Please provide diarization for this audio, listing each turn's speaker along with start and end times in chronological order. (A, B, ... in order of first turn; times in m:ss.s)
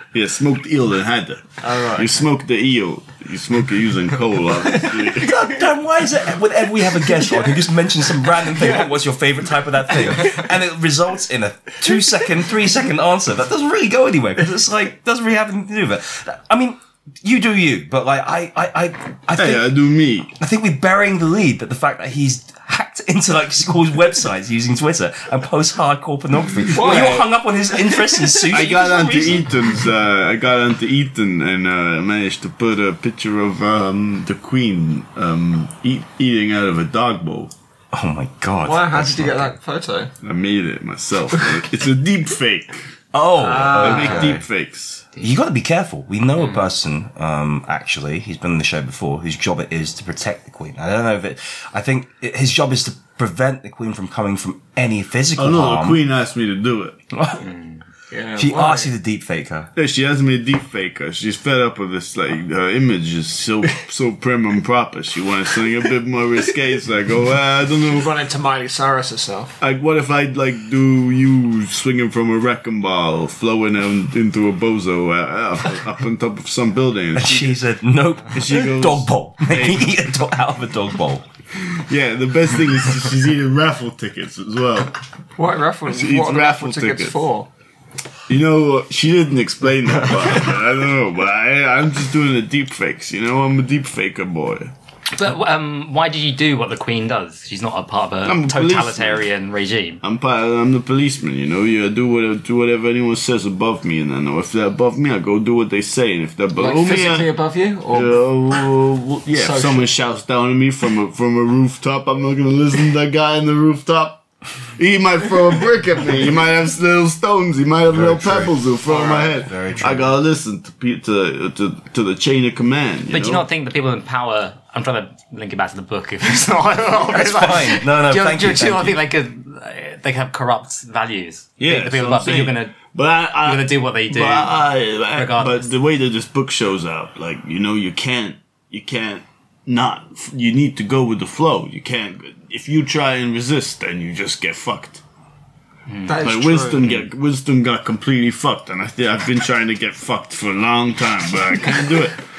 0:00.1-0:05.5 A
0:01.6-0:02.2 B
0:05.1-0:19.7 C
0:19.3-0:20.3 A
0:20.4-0:29.5 C
0:26.7-0:27.3 B
0:26.8-0:27.1 A
0:28.5-0:37.5 A
0:37.9-0:39.5 C
0:38.6-0:40.1 B
0:40.2-0:42.9 A
0:43.1-0:44.4 C
0:43.4-0:44.4 B
0:43.7-0:45.0 A
0:45.2-0:56.0 C
0:55.4-0:57.0 A
0:57.1-0:57.4 C
0:57.4-0:57.8 D
0:58.1-0:58.9 B
0:58.4-0:59.7 C
0:59.7-1:08.1 A
1:07.9-1:09.5 B
1:09.6-1:17.6 A
1:17.1-1:21.2 C
1:18.3-1:19.9 A
1:21.6-1:25.0 A
1:25.4-1:27.5 B
1:25.9-1:27.2 A
1:28.3-1:34.7 A
1:35.1-1:40.0 D
1:38.2-1:39.2 A
1:40.0-1:47.3 A
1:46.6-1:48.2 B
1:47.9-1:54.2 A
1:49.4-1:49.8 B
1:54.8-2:03.4 A
1:57.9-1:58.6 C
1:58.9-1:59.4 B
1:59.4-2:00.2 C
2:03.1-2:12.8 D
2:07.1-2:09.0 C
2:11.6-2:25.0 A
2:13.4-2:15.7 D
2:25.9-2:26.2 D
2:26.0-2:26.8 B
2:26.2-2:32.2 A